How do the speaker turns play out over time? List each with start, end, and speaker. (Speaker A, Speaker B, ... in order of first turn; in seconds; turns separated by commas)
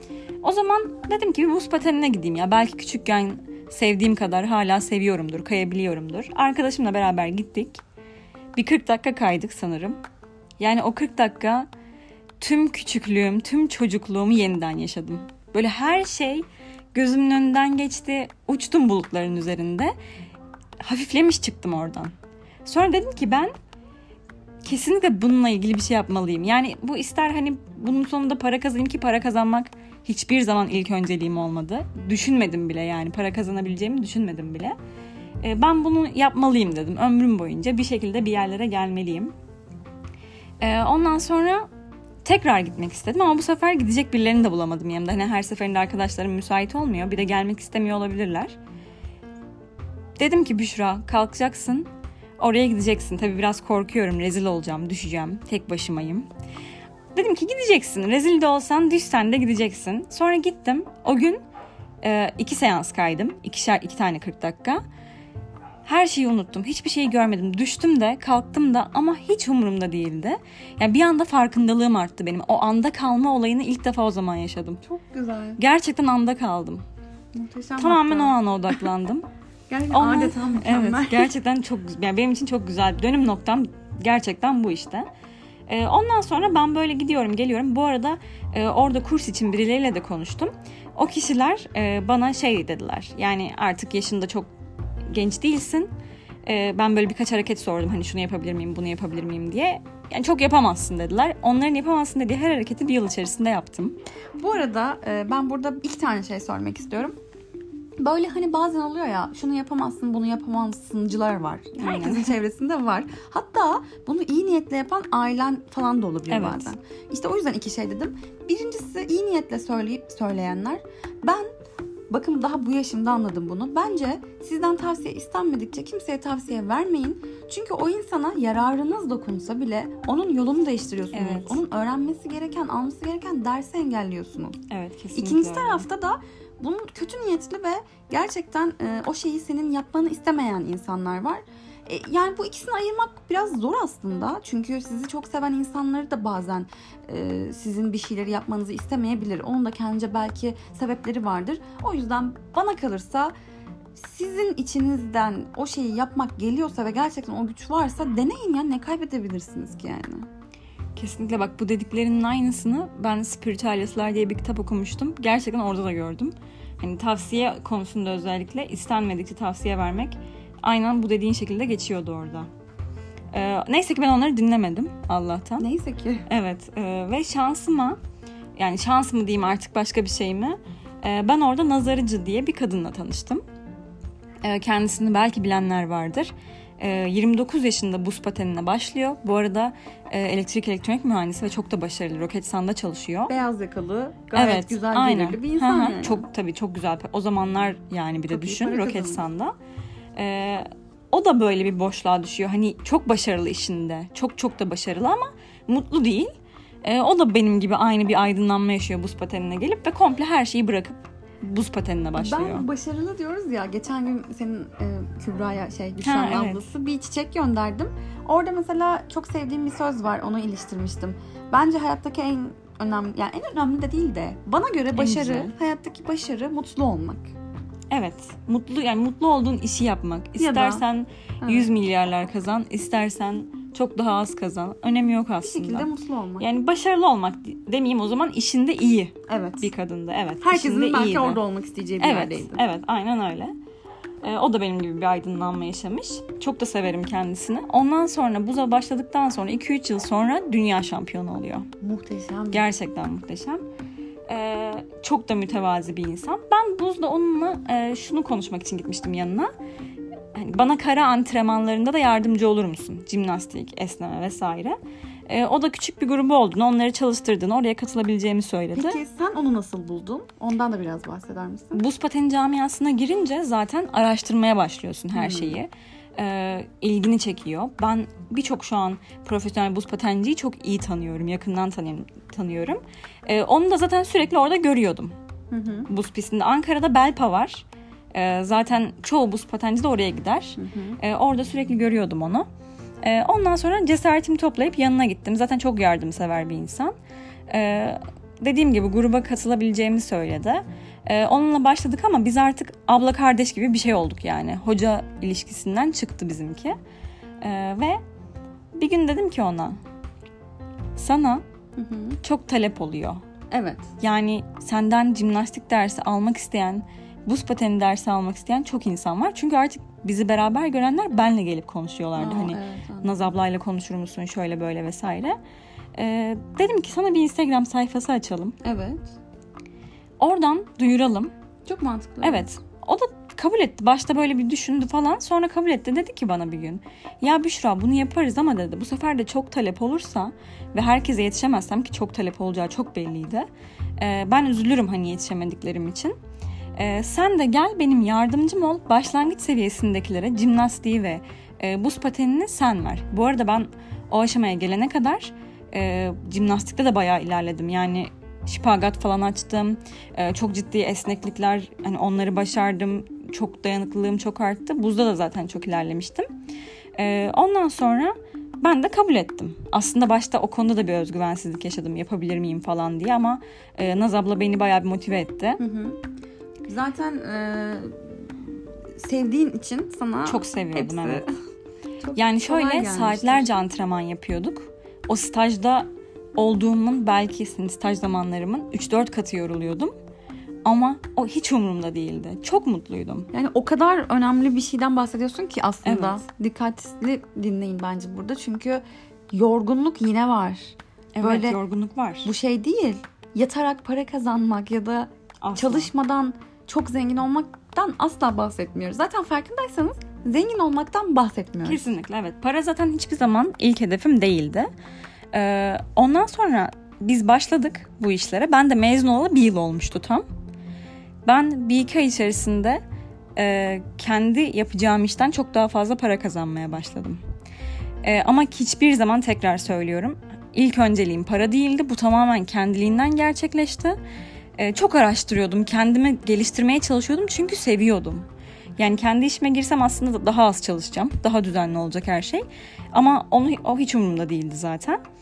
Speaker A: 0.4-7.8, Speaker A: 8.6-10.0, Speaker A: 10.6-11.7, Speaker A: 12.4-19.9, Speaker A: 20.8-23.5, Speaker A: 24.6-34.8, Speaker A: 35.4-39.3, Speaker A: 40.6-41.7, Speaker A: 42.2-48.6, Speaker A: 50.2-56.3, Speaker A: 57.1-61.4, Speaker A: 62.0-64.8, Speaker A: 65.8-74.8, Speaker B: 74.8-75.6, Speaker A: 75.6-76.8, Speaker B: 77.3-78.3, Speaker A: 77.8-79.3, Speaker B: 79.7-81.3, Speaker A: 79.9-85.1, Speaker A: 85.7-94.5, Speaker A: 95.1-95.9, Speaker A: 96.5-104.0, Speaker B: 104.4-107.2, Speaker B: 108.0-121.5, Speaker A: 111.8-112.4, Speaker A: 116.3-116.7, Speaker B: 122.1-134.6, Speaker A: 131.1-131.6, Speaker A: 134.7-135.8, Speaker B: 135.2-153.3, Speaker B: 153.9-160.3, Speaker A: 161.0-172.5, Speaker A: 173.3-175.7, Speaker B: 175.6-176.3, Speaker A: 176.3-178.0, Speaker A: 178.6-183.4, Speaker A: 184.4-193.3, Speaker B: 193.3-196.2, Speaker A: 194.3-199.5, Speaker B: 198.3-199.2, Speaker A: 200.2-206.3, Speaker A: 206.8-212.7, Speaker B: 212.2-227.3, Speaker A: 216.0-216.6, Speaker A: 224.9-225.5, Speaker A: 227.9-241.4, Speaker B: 230.4-230.8, Speaker B: 231.4-231.7, Speaker B: 235.4-236.5, Speaker B: 239.3-239.7, Speaker B: 240.4-242.6, Speaker A: 242.0-243.6, Speaker A: 244.2-251.7, Speaker B: 251.8-252.7, Speaker A: 252.5-253.6, Speaker A: 254.3-259.5, Speaker A: 260.3-269.0, Speaker B: 268.8-271.8, Speaker A: 271.7-285.1, Speaker B: 275.1-275.6, Speaker B: 285.5-285.9, Speaker A: 285.9-292.5, Speaker B: 290.6-291.0, Speaker A: 293.0-296.9, Speaker A: 297.5-306.8, Speaker A: 307.4-308.0, Speaker A: 308.8-309.8, Speaker A: 311.0-311.4, Speaker B: 311.8-312.2, Speaker A: 312.2-313.2, Speaker B: 313.5-313.9, Speaker A: 314.0-325.4, Speaker B: 322.2-323.1, Speaker A: 325.9-328.6, Speaker B: 328.6-329.1, Speaker A: 330.2-331.3, Speaker B: 331.7-332.5, Speaker A: 332.2-343.5, Speaker A: 344.0-346.1, Speaker A: 346.8-366.3, Speaker A: 367.0-375.6, Speaker B: 375.6-376.0, Speaker B: 376.7-381.3, Speaker A: 380.3-381.3, Speaker B: 382.0-383.5, Speaker A: 382.1-389.9, Speaker A: 390.6-393.3, Speaker B: 393.3-401.6, Speaker A: 395.9-396.2, Speaker A: 401.1-402.3, Speaker B: 402.2-411.8, Speaker A: 405.4-405.9, Speaker A: 411.6-414.7, Speaker A: 415.3-420.3, Speaker A: 421.2-422.8, Speaker A: 423.4-427.2, Speaker A: 428.0-434.0, Speaker A: 434.6-438.3, Speaker A: 438.8-445.0